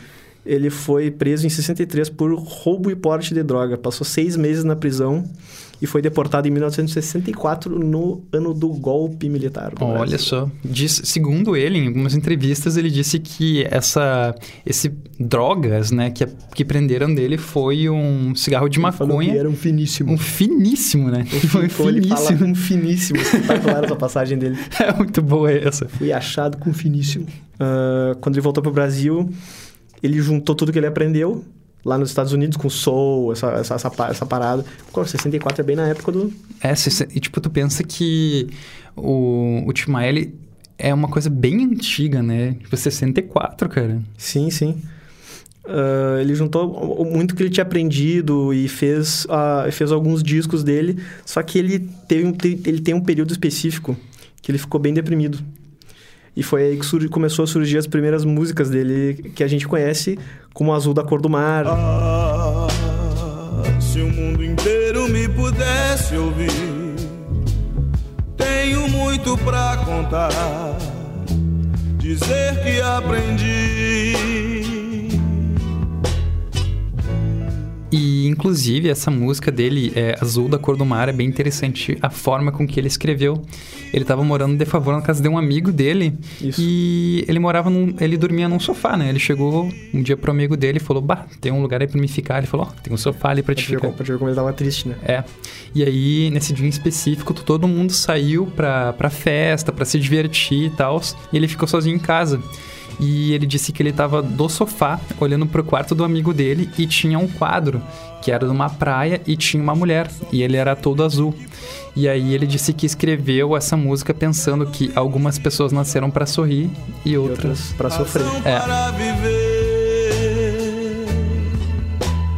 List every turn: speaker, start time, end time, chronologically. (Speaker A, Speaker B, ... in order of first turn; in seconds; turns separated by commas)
Speaker A: 0.4-10.3, Speaker B: 9.8-19.4, Speaker A: 18.8-20.2, Speaker B: 20.1-22.5, Speaker A: 21.3-24.6, Speaker B: 23.2-23.8, Speaker B: 24.7-25.9, Speaker A: 26.0-29.3, Speaker A: 30.0-36.4, Speaker B: 36.6-44.1, Speaker A: 44.2-44.8, Speaker A: 45.6-55.4, Speaker A: 56.3-61.8, Speaker C: 61.7-67.2, Speaker C: 68.3-71.2, Speaker C: 72.0-75.6, Speaker B: 77.9-93.9, Speaker A: 86.4-86.7, Speaker A: 93.5-95.0, Speaker B: 95.0-102.4, Speaker B: 103.0-111.4, Speaker B: 111.9-117.6, Speaker A: 117.2-118.4, Speaker C: 117.9-121.6